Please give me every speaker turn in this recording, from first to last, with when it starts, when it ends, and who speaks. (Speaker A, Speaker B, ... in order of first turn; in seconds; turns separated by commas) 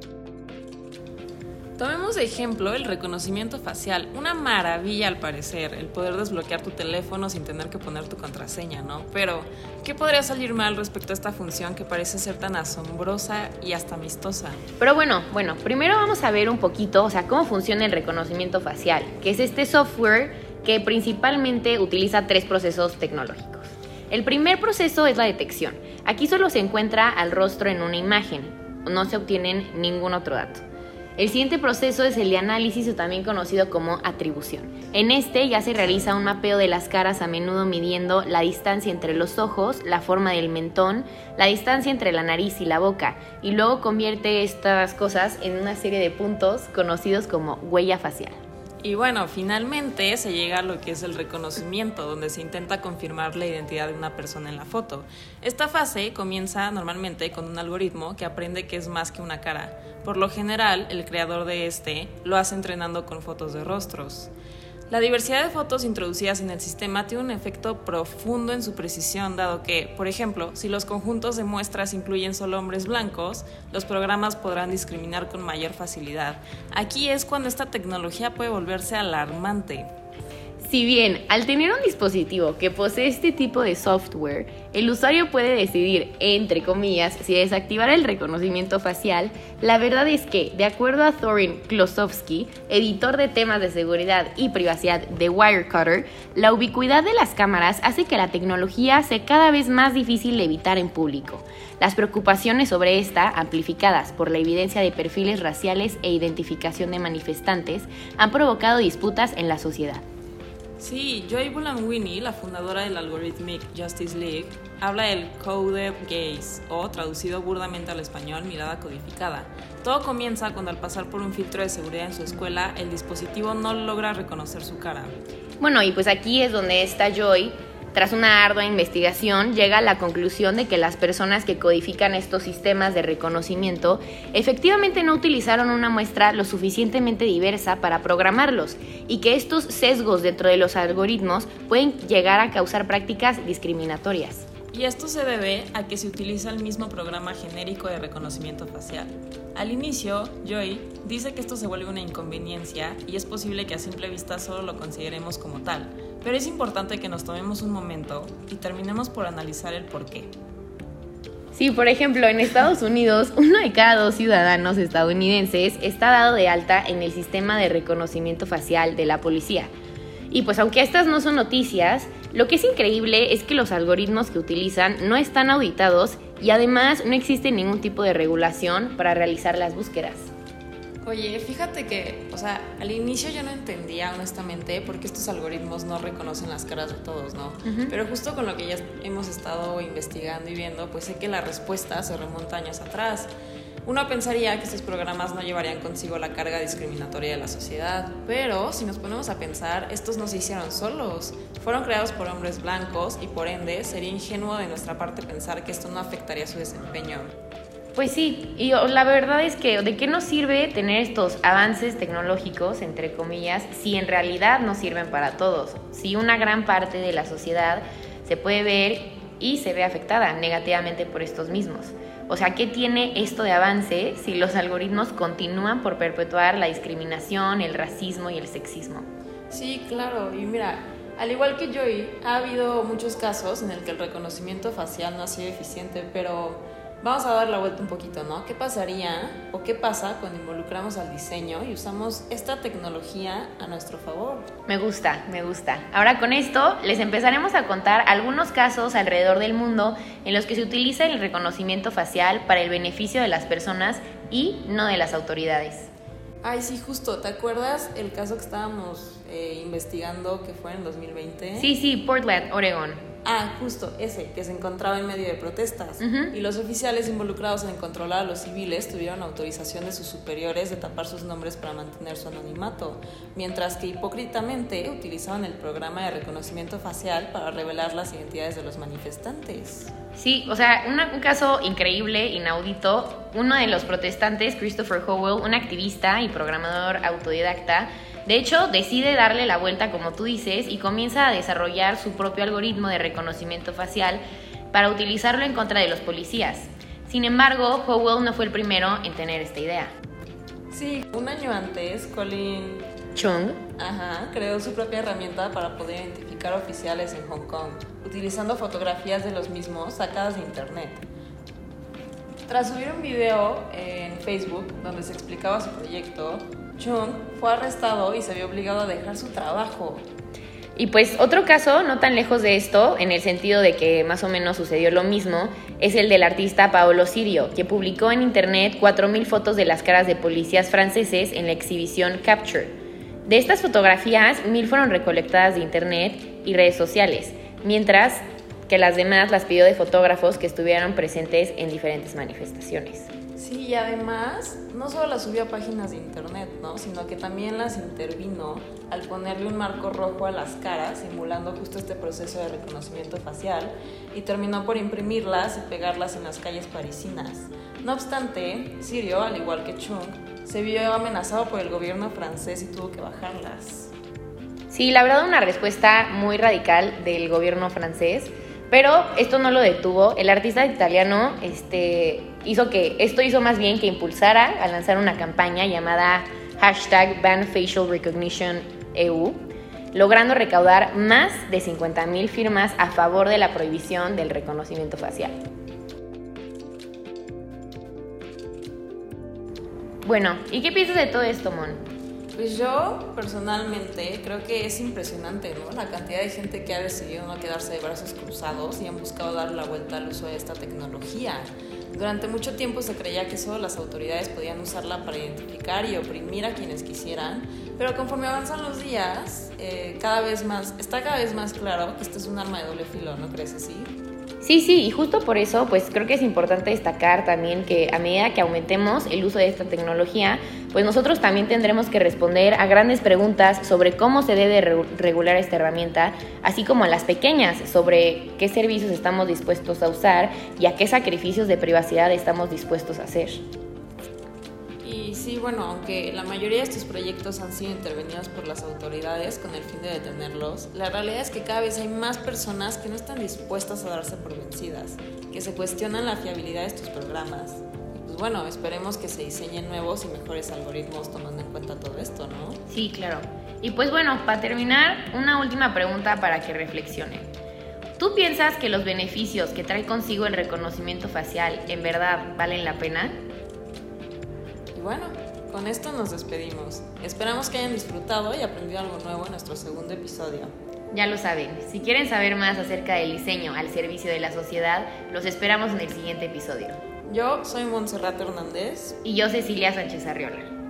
Speaker A: 1.8-14.6, Speaker B: 14.8-30.6, Speaker B: 31.2-48.4, Speaker A: 48.8-64.3, Speaker A: 64.9-79.9, Speaker B: 80.6-110.0, Speaker A: 110.8-125.2, Speaker B: 125.6-144.5, Speaker A: 144.7-160.3, Speaker B: 161.5-169.7, Speaker B: 170.3-180.3, Speaker A: 181.0-193.3, Speaker B: 187.6-187.9, Speaker A: 193.8-207.3, Speaker B: 207.9-229.1, Speaker A: 229.5-244.5, Speaker B: 244.7-255.9, Speaker A: 256.4-261.7, Speaker B: 261.6-263.0, Speaker A: 263.2-279.9, Speaker B: 266.0-266.3, Speaker B: 280.1-299.9, Speaker A: 300.7-302.9, Speaker B: 303.1-303.6, Speaker A: 303.8-311.1, Speaker A: 312.5-320.1, Speaker B: 320.8-332.8, Speaker B: 333.3-343.1, Speaker A: 343.4-363.9, Speaker B: 364.7-385.4, Speaker B: 390.0-391.8, Speaker A: 392.4-414.0, Speaker B: 414.4-433.4, Speaker A: 434.8-452.6, Speaker B: 452.7-457.3, Speaker B: 458.0-463.2, Speaker A: 464.8-470.5, Speaker B: 470.9-476.8, Speaker A: 477.1-479.0, Speaker B: 479.0-480.5